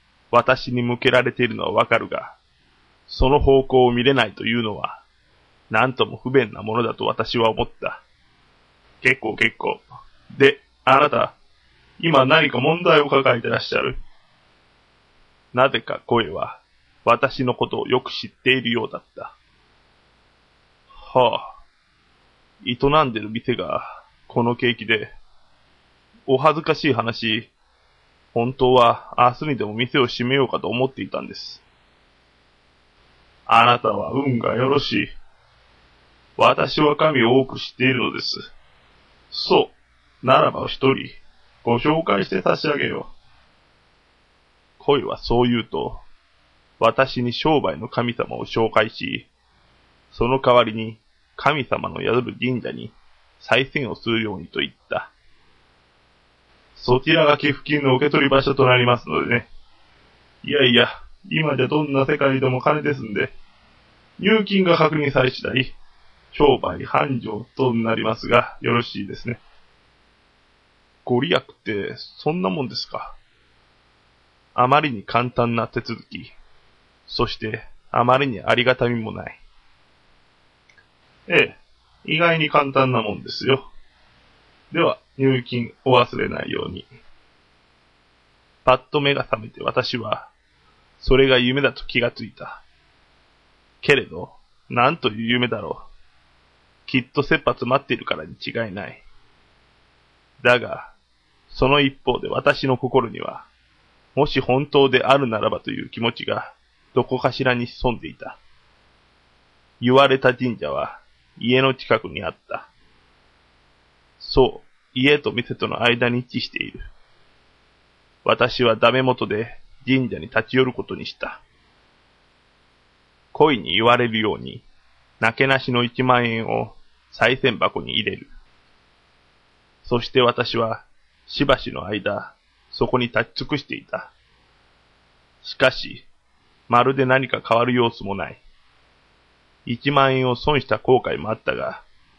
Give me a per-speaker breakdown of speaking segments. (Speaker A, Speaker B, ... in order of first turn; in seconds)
Speaker A: 0.3-2.4, 3.1-5.0, 5.7-8.0, 9.0-11.3, 12.0-14.0, 15.5-19.3, 20.9-21.6, 22.6-25.1, 26.3-27.5, 28.3-31.6, 33.5-35.1, 36.4-38.5, 39.3-43.1, 44.8-46.0, 46.8-49.3, 50.1-55.1, 56.8-59.5, 60.4-63.3, 64.2-65.8, 66.3-69.4, 71.0-73.2, 74.5-76.3, 77.1-79.4, 81.3-83.7, 84.7-86.9, 88.7-90.3, 91.0-92.6, 93.8-95.9, 96.9-99.0, 100.4-100.9, 101.5-103.5, 104.2-108.4, 109.8-112.7, 114.2-116.9, 118.2-121.4, 123.3-124.7, 125.2-128.3, 129.8-134.1, 135.4-136.1, 136.7-138.4, 139.7-141.8